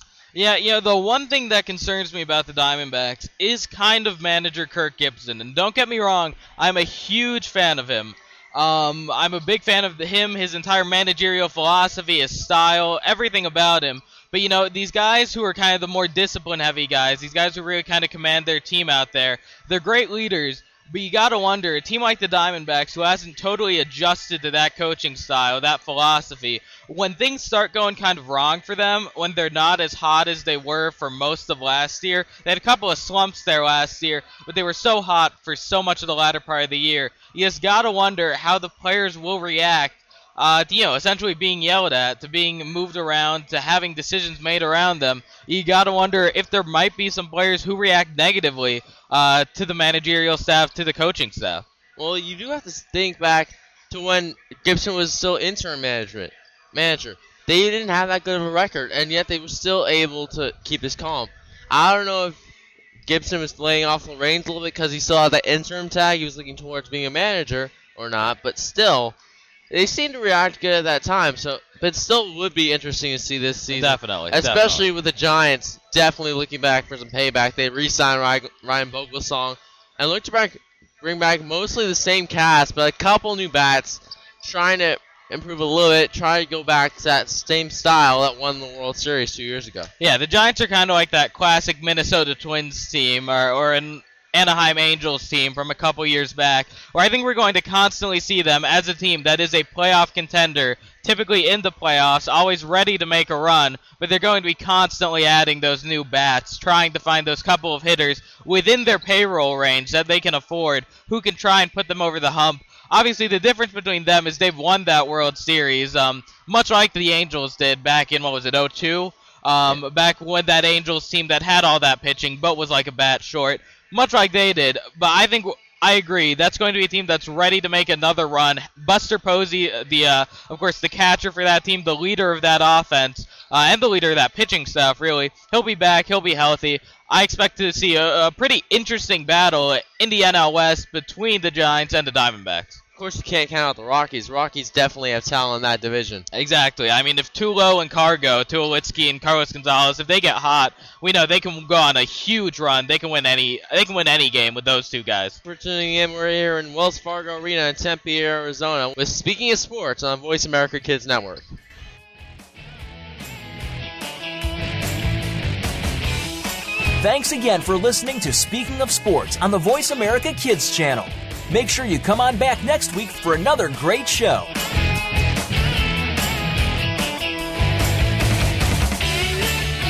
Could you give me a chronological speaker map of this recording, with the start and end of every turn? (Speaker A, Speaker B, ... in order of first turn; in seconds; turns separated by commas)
Speaker A: 0.3-51.6, Speaker B: 52.0-62.4, Speaker B: 63.0-69.2, Speaker B: 69.7-89.9, Speaker A: 73.7-74.8, Speaker A: 90.0-142.8, Speaker B: 143.0-146.2, Speaker A: 146.3-155.4, Speaker B: 155.4-161.4, Speaker C: 167.0-174.5